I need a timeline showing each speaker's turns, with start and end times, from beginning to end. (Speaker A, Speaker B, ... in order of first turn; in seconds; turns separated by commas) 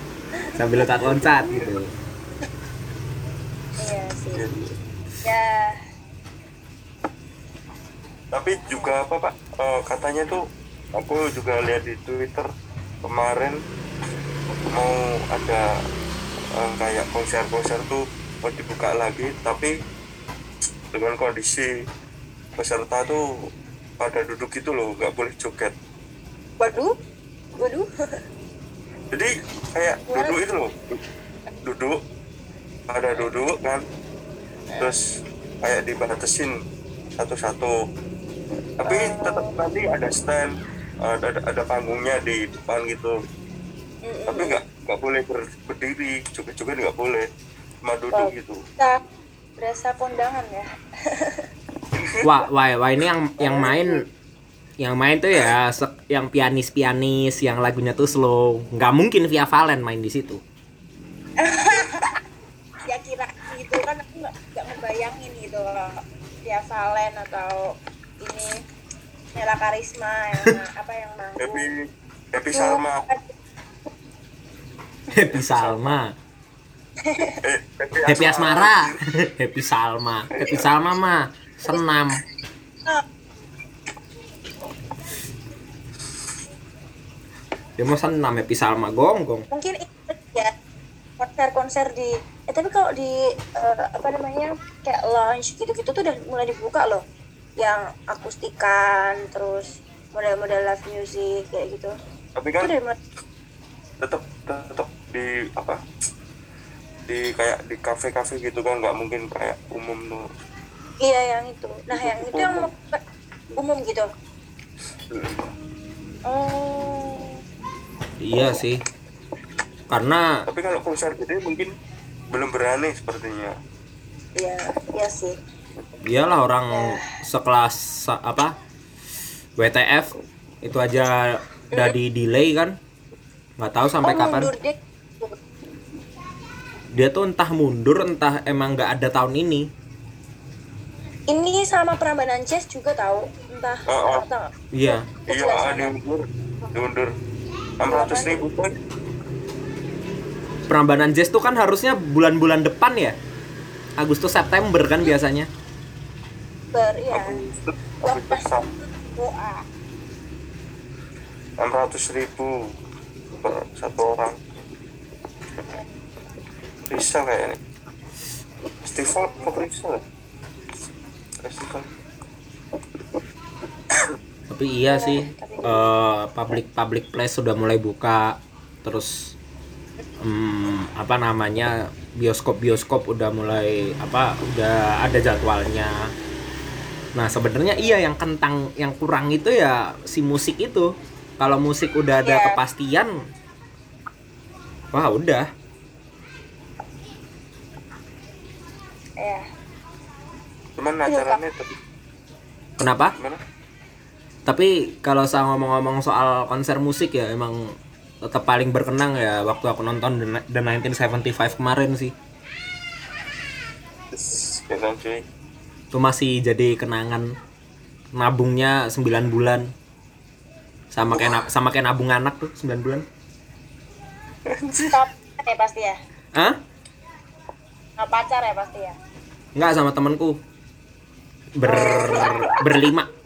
Speaker A: 0.4-1.2, Speaker B: 0.5-1.9, Speaker A: 3.8-4.4, Speaker C: 4.3-4.7, Speaker A: 5.2-5.8, Speaker C: 8.3-10.4, Speaker A: 8.6-8.9, Speaker C: 10.9-12.5, Speaker C: 13.0-13.6, Speaker C: 14.7-15.7, Speaker C: 16.5-19.7, Speaker C: 20.9-21.7, Speaker C: 22.6-23.2, Speaker C: 24.0-25.7, Speaker A: 26.6-26.9, Speaker A: 27.6-27.9, Speaker C: 29.1-31.0, Speaker A: 30.1-30.4, Speaker C: 31.6-32.0, Speaker C: 32.9-33.8, Speaker C: 35.6-36.5, Speaker C: 37.2-37.7, Speaker C: 38.8-40.5, Speaker A: 38.9-39.5, Speaker C: 41.0-43.2, Speaker A: 44.0-44.6, Speaker C: 44.3-47.3, Speaker C: 47.8-48.6, Speaker A: 48.1-49.0, Speaker A: 49.6-51.4, Speaker C: 52.0-52.3, Speaker B: 52.2-54.0, Speaker A: 53.4-53.9, Speaker B: 54.8-60.4, Speaker A: 61.4-62.2, Speaker A: 62.8-68.6, Speaker A: 69.3-71.7, Speaker C: 71.4-73.0, Speaker A: 72.5-73.3, Speaker B: 75.1-76.1, Speaker C: 75.3-76.0, Speaker A: 77.0-77.4, Speaker C: 77.4-79.0, Speaker B: 78.1-82.2, Speaker C: 80.3-80.7, Speaker B: 87.8-89.4, Speaker A: 89.5-90.5, Speaker A: 91.2-97.0, Speaker A: 97.6-101.9, Speaker C: 102.4-102.7, Speaker A: 102.6-103.0, Speaker C: 104.0-105.8, Speaker C: 107.1-110.2, Speaker A: 111.0-113.0, Speaker C: 111.9-112.7, Speaker A: 113.5-114.1, Speaker C: 115.1-115.4, Speaker A: 116.2-117.4, Speaker B: 118.2-118.8, Speaker B: 119.9-120.4, Speaker C: 120.5-121.7, Speaker C: 122.3-123.5, Speaker A: 124.4-125.3, Speaker B: 126.0-128.5, Speaker A: 126.7-127.1, Speaker B: 129.6-132.8, Speaker B: 133.6-134.5, Speaker A: 134.0-135.4, Speaker B: 136.9-139.6, Speaker A: 141.3-144.5, Speaker C: 143.9-144.2, Speaker B: 144.7-145.1, Speaker A: 145.1-145.9, Speaker C: 145.3-147.1, Speaker C: 147.8-148.7, Speaker A: 147.8-148.4, Speaker B: 150.7-153.2, Speaker B: 154.0-155.5, Speaker A: 156.7-157.4, Speaker C: 157.1-158.7, Speaker A: 158.0-159.6, Speaker C: 161.6-162.6, Speaker C: 163.4-164.4, Speaker C: 166.9-167.6, Speaker C: 168.8-170.0, Speaker A: 169.1-169.6, Speaker C: 171.4-171.9, Speaker B: 174.5-179.3, Speaker A: 174.9-175.9, Speaker B: 180.2-185.9, Speaker B: 187.2-193.2, Speaker A: 192.2-192.6, Speaker B: 194.9-195.5, Speaker A: 199.2-199.4, Speaker C: 200.8-201.7, Speaker A: 201.1-201.4, Speaker B: 202.8-203.1, Speaker B: 204.4-212.1, Speaker C: 214.1-215.2, Speaker B: 215.9-217.3, Speaker B: 218.1-219.7, Speaker B: 220.9-223.0, Speaker C: 221.1-221.4, Speaker C: 224.5-225.0, Speaker A: 224.9-226.0, Speaker A: 228.0-228.9, Speaker B: 229.6-230.4, Speaker B: 231.6-233.1, Speaker C: 231.7-232.6, Speaker A: 231.7-232.3